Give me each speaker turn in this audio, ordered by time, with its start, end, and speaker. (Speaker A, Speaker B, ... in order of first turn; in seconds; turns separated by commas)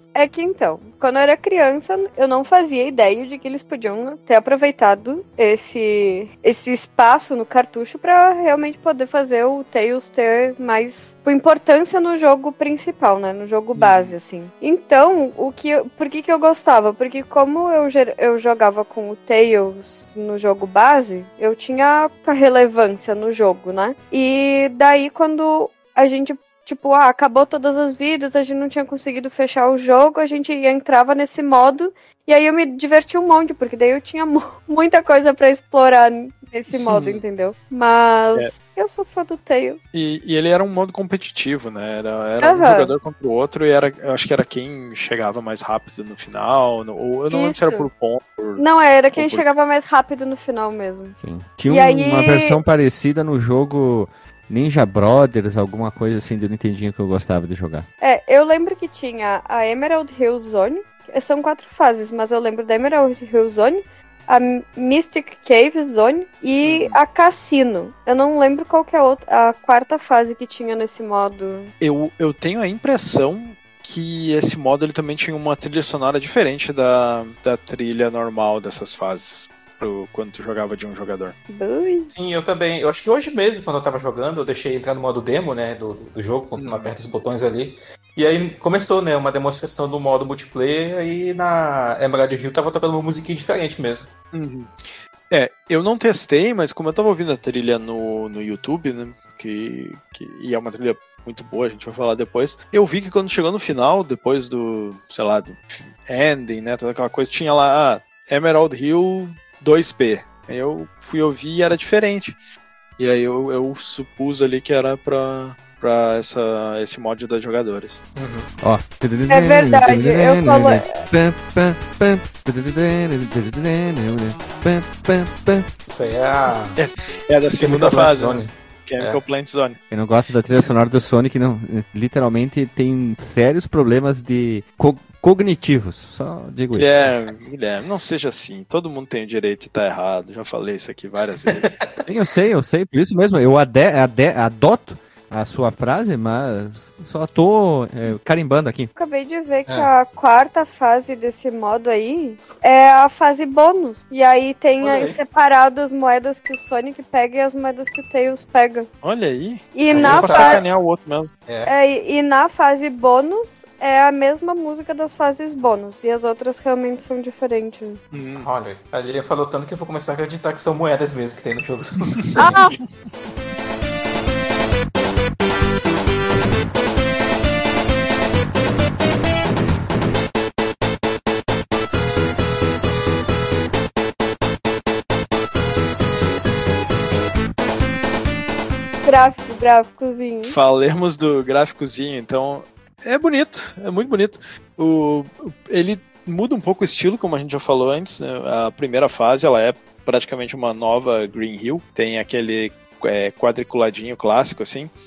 Speaker A: 0.1-39.8, Speaker B: 13.7-14.2, Speaker B: 36.8-37.2, Speaker B: 39.9-48.6, Speaker A: 42.4-42.9, Speaker A: 47.3-47.9, Speaker A: 48.6-51.2, Speaker B: 49.1-49.5, Speaker C: 51.2-57.9, Speaker A: 51.7-52.6, Speaker A: 58.0-71.7, Speaker B: 66.6-67.0, Speaker B: 71.8-81.4, Speaker A: 81.5-82.1, Speaker D: 82.1-94.1, Speaker B: 86.6-86.9, Speaker B: 94.3-94.7, Speaker B: 95.3-112.3, Speaker B: 113.0-118.0, Speaker D: 118.2-118.5, Speaker C: 118.6-125.7, Speaker A: 119.3-121.0, Speaker D: 125.9-126.8, Speaker B: 126.8-129.8, Speaker D: 127.6-129.2, Speaker C: 129.9-137.1, Speaker B: 136.7-141.8, Speaker C: 142.1-148.9, Speaker A: 148.9-158.9, Speaker D: 154.8-155.2, Speaker B: 159.0-161.3, Speaker A: 159.7-160.6, Speaker D: 159.9-160.7, Speaker A: 161.7-168.0, Speaker B: 168.1-168.5, Speaker D: 168.4-172.8, Speaker A: 172.4-172.8, Speaker A: 189.0-190.6, Speaker B: 190.4-204.9